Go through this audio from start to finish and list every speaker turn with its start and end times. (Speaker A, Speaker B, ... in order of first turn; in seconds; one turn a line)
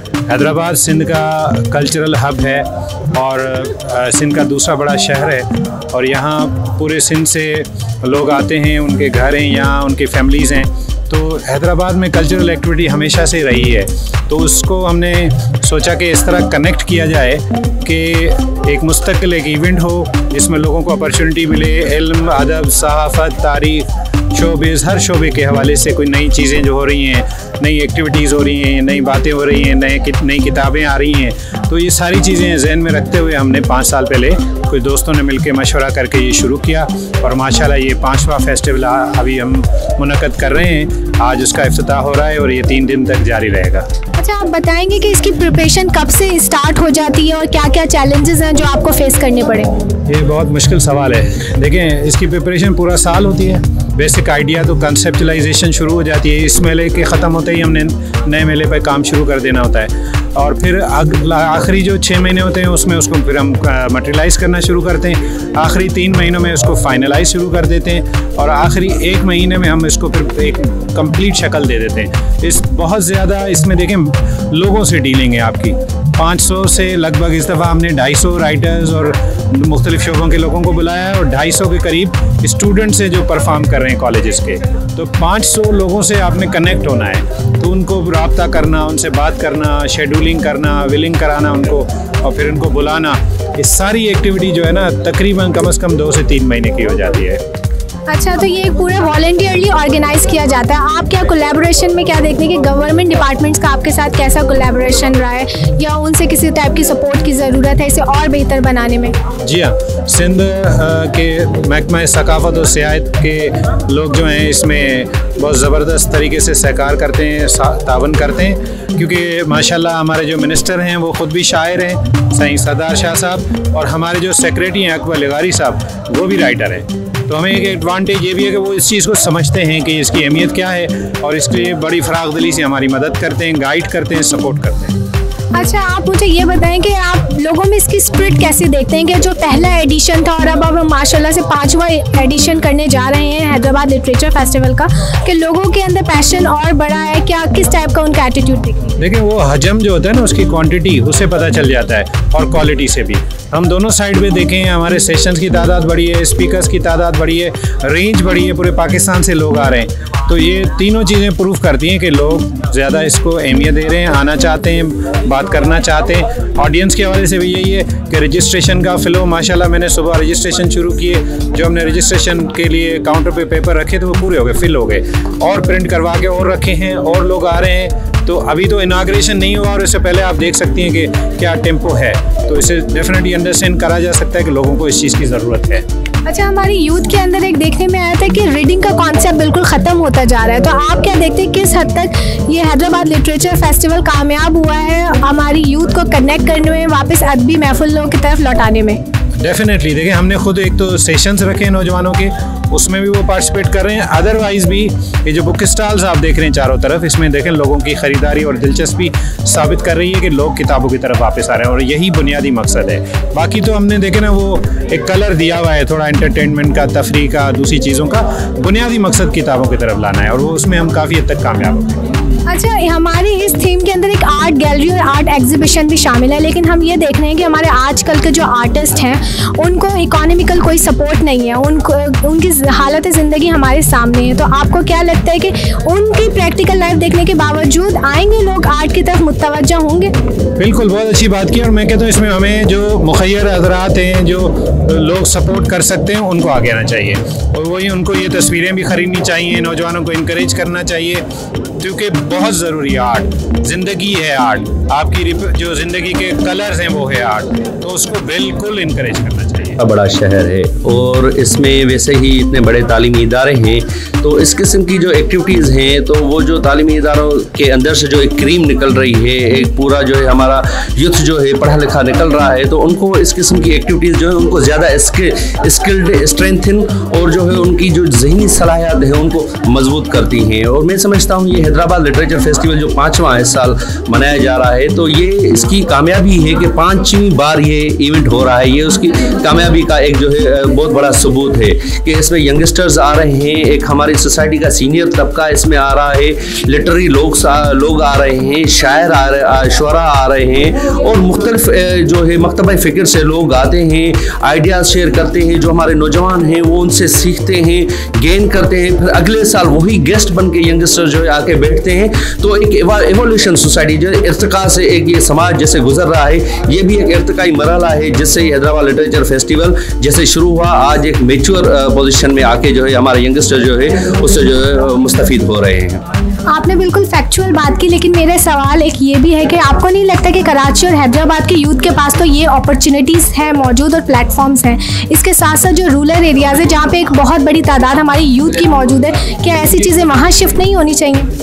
Speaker A: 0.3-43.9
Speaker B: 44.2-49.7
Speaker A: 50.1-97.4
Speaker B: 98.1-109.2
Speaker A: 109.4-134.9
Speaker B: 135.6-149.0
Speaker A: 149.0-185.8
Speaker B: 186.3-199.0
Speaker A: 199.4-222.0
Speaker B: 222.5-240.1
Speaker A: 240.6-251.2
Speaker A: 251.8-259.8
Speaker C: 259.8-326.0
Speaker B: 326.5-341.3